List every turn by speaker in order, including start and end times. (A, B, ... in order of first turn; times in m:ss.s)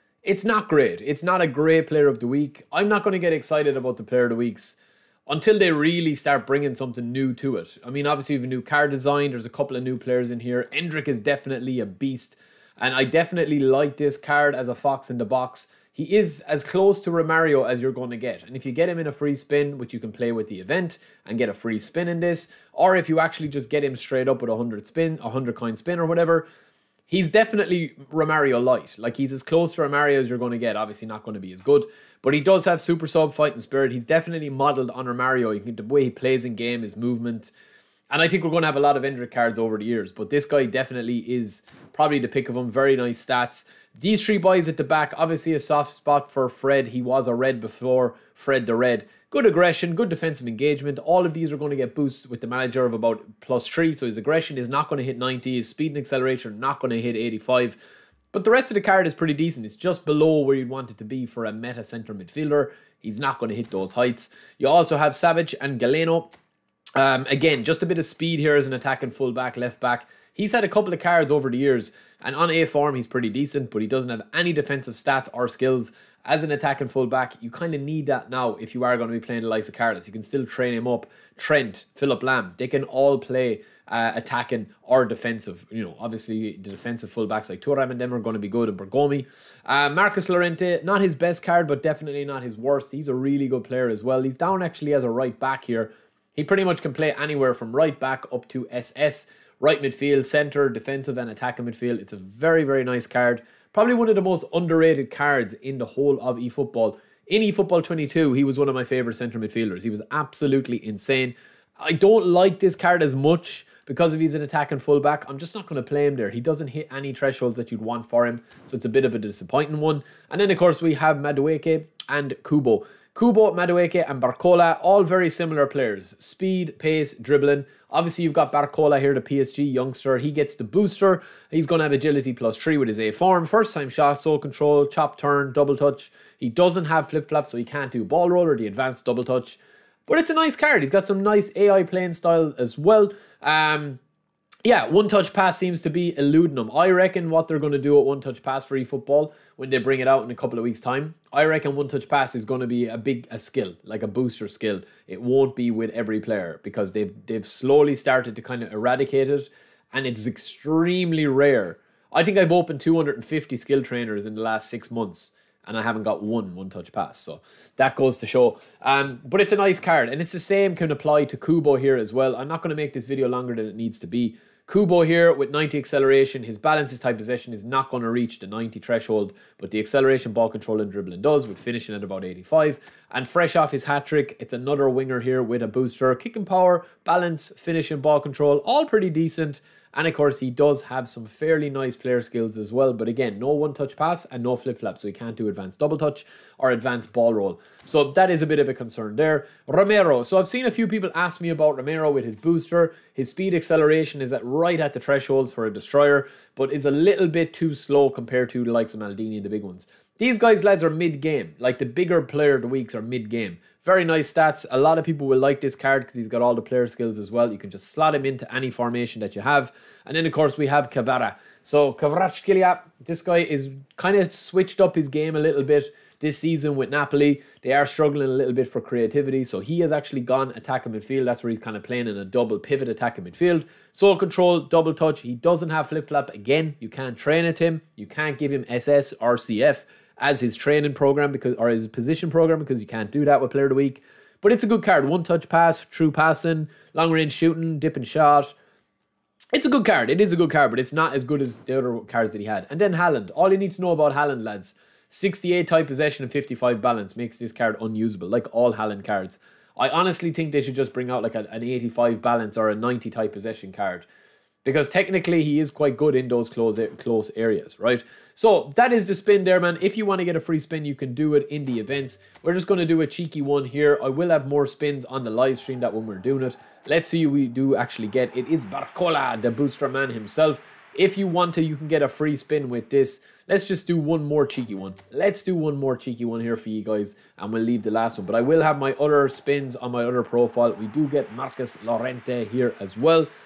0:00.2-0:26.5 A
0:27.1-0:37.5 A
0:38.1-0:57.8 A
0:58.3-1:06.3 A
1:07.0-2:24.0 A
2:24.6-4:08.5 A
4:09.5-4:24.1 A
4:24.6-4:53.3 A